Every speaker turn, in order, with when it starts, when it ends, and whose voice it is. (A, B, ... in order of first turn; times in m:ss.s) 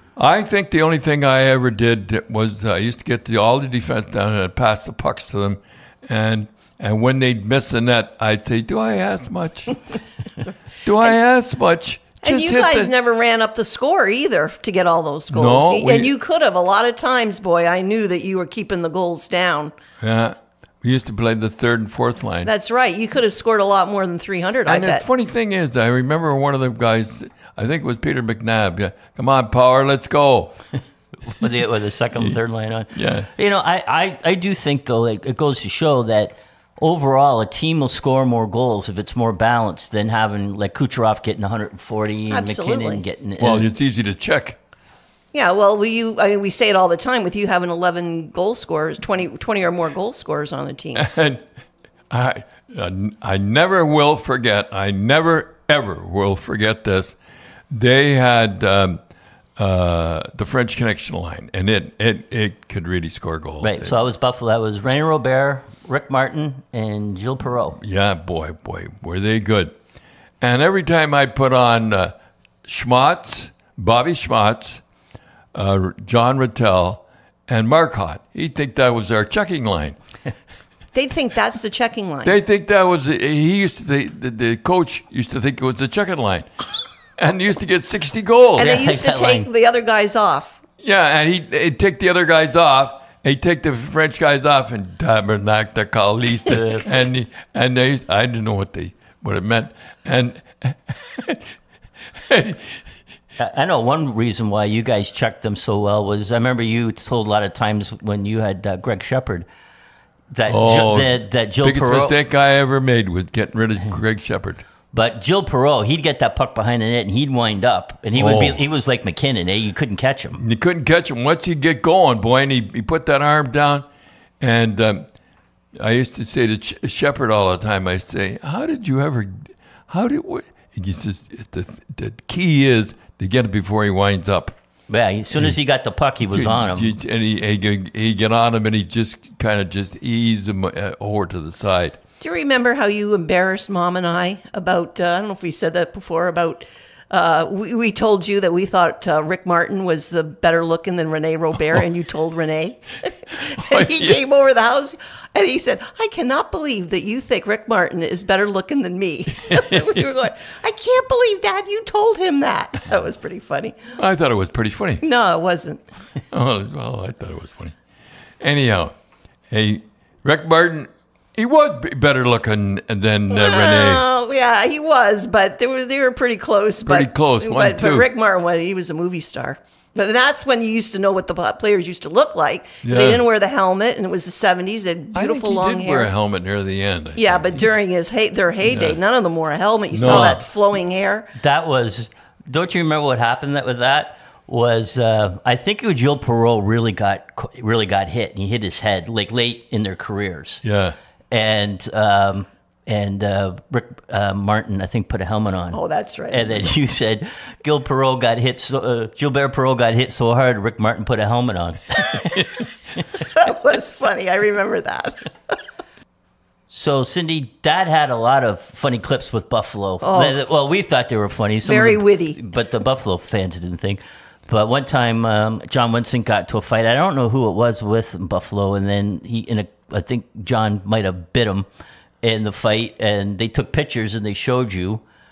0:00.2-0:09.8 A
0:10.4-0:11.2 B
0:10.8-0:12.9 A
0:12.2-0:19.7 B
0:15.3-0:16.1 A
0:20.0-0:22.5 A
0:22.4-0:25.0 B
0:24.6-0:30.5 A
0:31.2-0:43.7 C
0:32.9-0:33.3 A
0:42.3-0:43.0 B
0:43.4-0:44.6 A
0:45.3-0:51.0 B
0:50.9-0:51.4 A
0:52.1-0:57.2 A
0:57.7-0:59.0 A
0:59.6-1:04.0 A
1:03.6-1:07.8 C
1:07.8-1:09.7 A
1:10.4-1:12.1 A
1:12.6-1:14.8 A
1:15.5-1:19.9 A
1:20.9-1:22.4 B
1:22.2-1:26.5 A
1:27.2-1:28.7 A
1:28.6-1:30.6 B
1:28.6-1:29.5 C
1:30.8-1:41.5 A
1:36.5-1:36.9 C
1:42.2-1:42.8 A
1:43.4-1:49.4 C
1:50.3-1:52.1 C
1:50.5-1:54.6 A
1:54.9-2:00.4 C
1:58.1-1:58.6 A
2:00.4-2:03.8 A
2:04.4-2:05.0 A
2:05.8-2:14.5 A
2:14.9-2:16.9 C
2:16.2-2:22.0 A
2:22.2-2:43.9 B
2:33.6-2:34.2 A
2:39.5-2:39.9 A
2:43.9-2:45.0 A
2:45.0-2:45.8 B
2:46.3-2:47.8 A
2:48.4-2:48.9 A
2:49.5-2:54.0 A
2:53.3-3:06.1 B
2:56.8-2:58.1 A
3:02.8-3:03.2 A
3:05.1-3:07.6 A
3:07.1-3:11.3 B
3:08.6-3:09.0 A
3:09.9-3:10.4 A
3:10.0-3:10.4 C
3:11.3-3:20.6 C
3:20.6-3:21.0 A
3:21.3-3:33.2 C
3:25.7-3:26.7 B
3:33.3-3:35.3 B
3:36.7-3:51.6 C
3:40.0-3:40.4 B
3:41.6-3:42.4 B
3:52.2-3:55.0 C